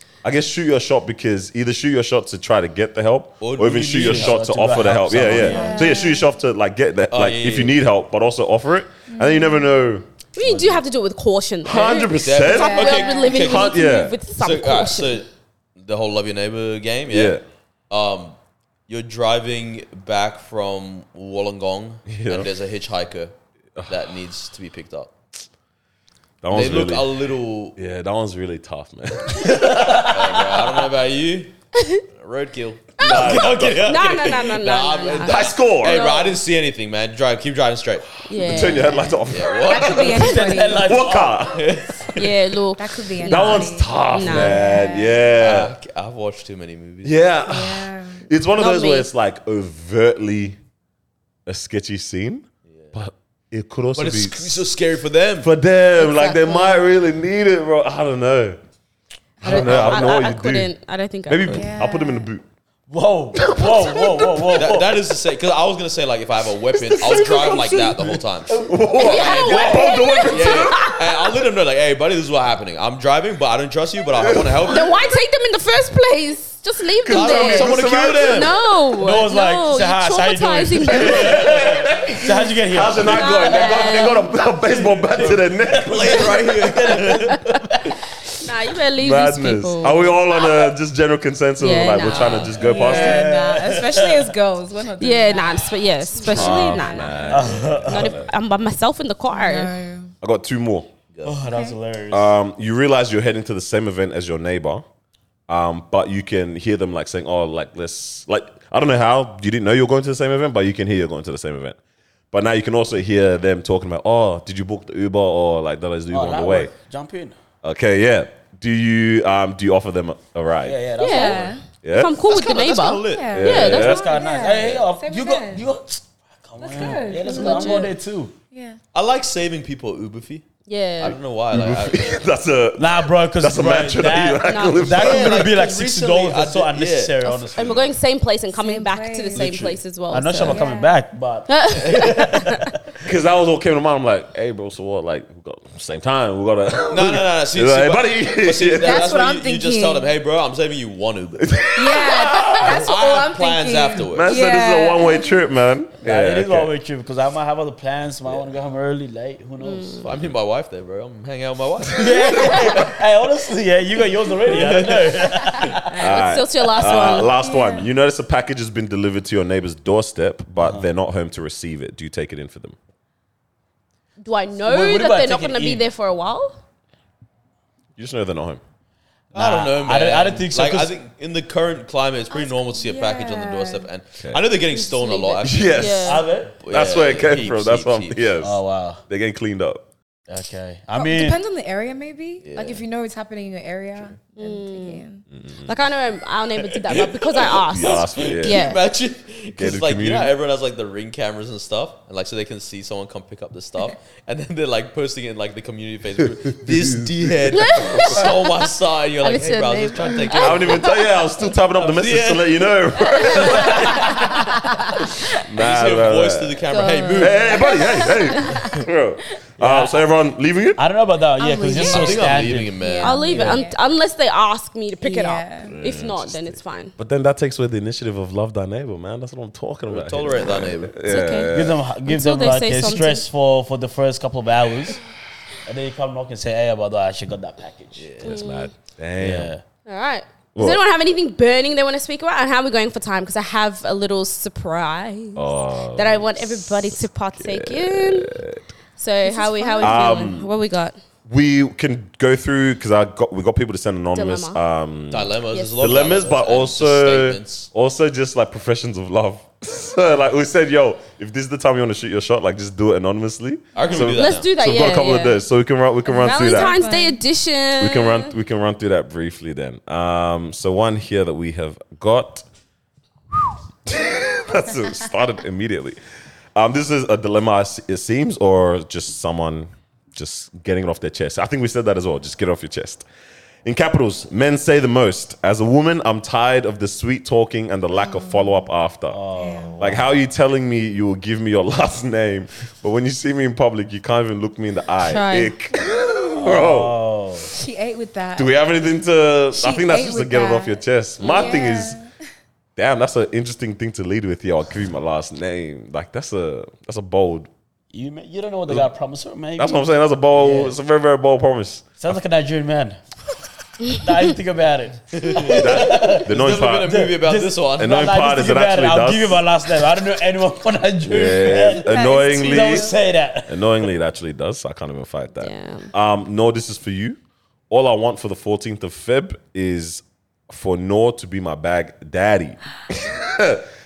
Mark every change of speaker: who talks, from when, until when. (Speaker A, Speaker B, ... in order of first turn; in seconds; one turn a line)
Speaker A: 0.2-10.1
Speaker B: 3.4-4.4
Speaker C: 3.7-6.1
Speaker B: 5.3-5.6
Speaker D: 5.3-6.3
Speaker B: 7.1-7.8
Speaker D: 9.1-9.7
Speaker E: 10.3-15.2
Speaker B: 10.4-10.8
Speaker A: 11.6-14.2
Speaker B: 12.1-13.8
Speaker D: 12.5-13.4
Speaker B: 14.4-17.4
Speaker A: 17.1-17.4
Speaker B: 17.9-18.4
Speaker B: 18.9-23.4
Speaker A: 22.1-22.5
Speaker A: 23.8-24.0
Speaker B: 23.9-25.1
Speaker A: 26.4-27.1
Speaker B: 26.5-27.8
Speaker A: 27.8-30.3
Speaker C: 29.4-30.6
Speaker B: 30.1-31.5
Speaker B: 32.1-38.1
Speaker A: 33.0-34.1
Speaker E: 33.0-36.4
Speaker A: 35.2-36.1
Speaker E: 38.3-39.2
Speaker A: 38.3-40.2
Speaker B: 39.3-40.1
Speaker D: 39.5-41.0
Speaker C: 40.1-41.4
Speaker A: 40.8-42.3
Speaker B: 41.5-42.1
Speaker E: 42.1-44.6
Speaker D: 42.8-45.3
Speaker A: 43.2-45.7
Speaker B: 45.4-47.3
Speaker A: 47.0-50.6
Speaker D: 47.4-48.3
Speaker E: 48.5-49.1
Speaker A: 51.5-54.7
Speaker B: 52.7-53.0
Speaker B: 54.0-55.5
Speaker A: 55.4-58.6
Speaker E: 56.0-56.9
Speaker A: 59.4-60.7
Speaker E: 59.4-61.8
Speaker B: 59.4-60.0
Speaker A: 61.3-62.5
Speaker D: 61.5-62.3
Speaker C: 62.9-65.0
Speaker A: 63.4-64.6
Speaker B: 64.6-75.0
Speaker A: 66.7-71.0
Speaker D: 67.1-67.9
Speaker C: 68.5-68.8
Speaker E: 69.0-70.8
Speaker D: 69.3-70.2
Speaker A: 74.2-74.8
Speaker E: 74.7-81.5
Speaker A: 77.0-78.6
Speaker B: 77.1-78.5
Speaker C: 79.0-84.1
Speaker A: 80.9-86.5
Speaker E: 83.0-84.3
Speaker C: 85.1-87.9
Speaker B: 85.8-87.5
Speaker E: 88.4-90.1
Speaker A: 89.0-93.2
Speaker E: 91.6-93.2
Speaker C: 92.6-94.3
Speaker D: 92.6-97.6
Speaker E: 95.0-97.3
Speaker A: 96.2-98.3
Speaker C: 97.2-98.2
Speaker E: 97.8-99.7
Speaker D: 99.3-100.1
Speaker A: 100.2-100.9
Speaker B: 101.1-101.4
Speaker C: 101.2-102.3
Speaker D: 101.4-101.8
Speaker A: 102.1-104.9
Speaker A: 105.5-111.8
Speaker A: 112.3-116.7
Speaker C: 116.1-117.4
Speaker A: 117.6-120.8
Speaker C: 120.6-121.6
Speaker E: 121.0-124.0
Speaker D: 121.0-121.6
Speaker A: 121.8-122.2
Speaker B: 122.3-123.7
Speaker D: 123.1-125.7
Speaker A: 123.3-124.1
Speaker C: 123.5-128.3
Speaker D: 126.6-128.0
Speaker E: 127.3-127.9
Speaker D: 128.5-128.8
Speaker B: 128.9-130.5
Speaker E: 130.7-131.2
Speaker B: 131.0-132.2
Speaker A: 131.0-135.5
Speaker C: 132.8-137.9
Speaker E: 134.4-135.0
Speaker B: 134.9-137.8
Speaker E: 137.2-140.7
Speaker D: 138.5-139.6
Speaker C: 139.3-142.8
Speaker D: 140.4-141.0
Speaker E: 141.5-142.6
Speaker A: 143.0-149.0
Speaker B: 146.9-151.6
Speaker D: 148.7-150.1
Speaker A: 151.4-152.9
Speaker D: 151.7-155.4
Speaker B: 152.6-154.4
Speaker A: 154.1-156.7
Speaker C: 156.0-160.1
Speaker E: 159.6-160.1
Speaker B: 160.0-162.8
Speaker C: 161.9-166.2
Speaker B: 164.5-165.2
Speaker E: 165.9-167.4
Speaker A: 166.0-172.8
Speaker D: 167.4-167.9
Speaker C: 170.6-170.9
Speaker E: 174.2-176.6
Speaker C: 174.6-175.8
Speaker A: 178.0-178.6
Speaker C: 179.3-180.9
Speaker B: 179.3-188.3
Speaker D: 182.3-183.9
Speaker E: 184.7-186.3
Speaker A: 185.4-186.1
Speaker C: 186.1-186.6
Speaker A: 186.7-189.8
Speaker C: 188.4-189.0
Speaker C: 190.3-191.4
Speaker D: 190.9-195.2
Speaker B: 192.4-192.8
Speaker E: 194.4-195.1
Speaker A: 195.4-195.7
Speaker E: 195.6-198.8
Speaker B: 196.7-210.9
Speaker A: 197.6-198.6
Speaker A: 199.6-200.3
Speaker A: 206.2-208.2
Speaker E: 207.5-208.5
Speaker E: 209.2-211.0
Speaker A: 210.3-216.7
Speaker B: 211.8-212.7
Speaker E: 213.4-213.7
Speaker B: 215.5-217.7
Speaker E: 216.7-218.6
Speaker A: 217.2-220.8
Speaker D: 217.5-218.7
Speaker C: 219.6-220.0
Speaker C: 220.8-223.6
Speaker D: 221.4-223.8
Speaker B: 221.8-223.3
Speaker E: 223.0-226.9
Speaker D: 225.0-225.8
Speaker A: 225.7-231.8
Speaker B: 229.9-230.9
Speaker E: 231.1-231.5
Speaker C: 231.5-235.0
Speaker E: 232.1-233.3
Speaker C: 235.7-238.1
Speaker B: 237.9-238.4
Speaker A: 238.2-239.5
Speaker E: 238.2-238.7
Speaker C: 239.2-239.6
Speaker E: 239.9-248.4
Speaker A: 240.6-240.8
Speaker A: 245.3-248.6
Speaker E: 249.0-251.0
Speaker D: 249.2-250.3
Speaker A: 249.8-250.5
Speaker A: 251.3-266.8
Speaker E: 254.2-254.6
Speaker B: 255.1-257.7
Speaker E: 255.5-255.8
Speaker B: 263.8-264.5
Speaker E: 264.0-265.4
Speaker D: 266.1-267.2
Speaker E: 266.2-268.3
Speaker A: 267.8-272.4
Speaker A: 273.3-276.0
Speaker A: 276.6-283.1
Speaker A: 283.6-289.2
Speaker C: 289.1-290.1
Speaker D: 289.4-289.8
Speaker A: 289.8-297.0
Speaker E: 295.0-295.5
Speaker C: 296.4-297.5
Speaker D: 297.5-298.6
Speaker A: 298.4-302.0
Speaker D: 299.5-302.1
Speaker E: 301.2-301.7
Speaker A: 302.8-307.5
Speaker C: 307.9-310.8
Speaker A: 309.6-312.2
Speaker C: 312.0-313.0
Speaker C: 313.9-323.7
Speaker B: 315.1-318.2
Speaker A: 315.5-316.9
Speaker A: 317.8-319.4
Speaker A: 321.1-322.9
Speaker D: 321.8-323.0
Speaker A: 323.5-327.2
Speaker E: 325.4-325.9
Speaker A: 327.7-333.7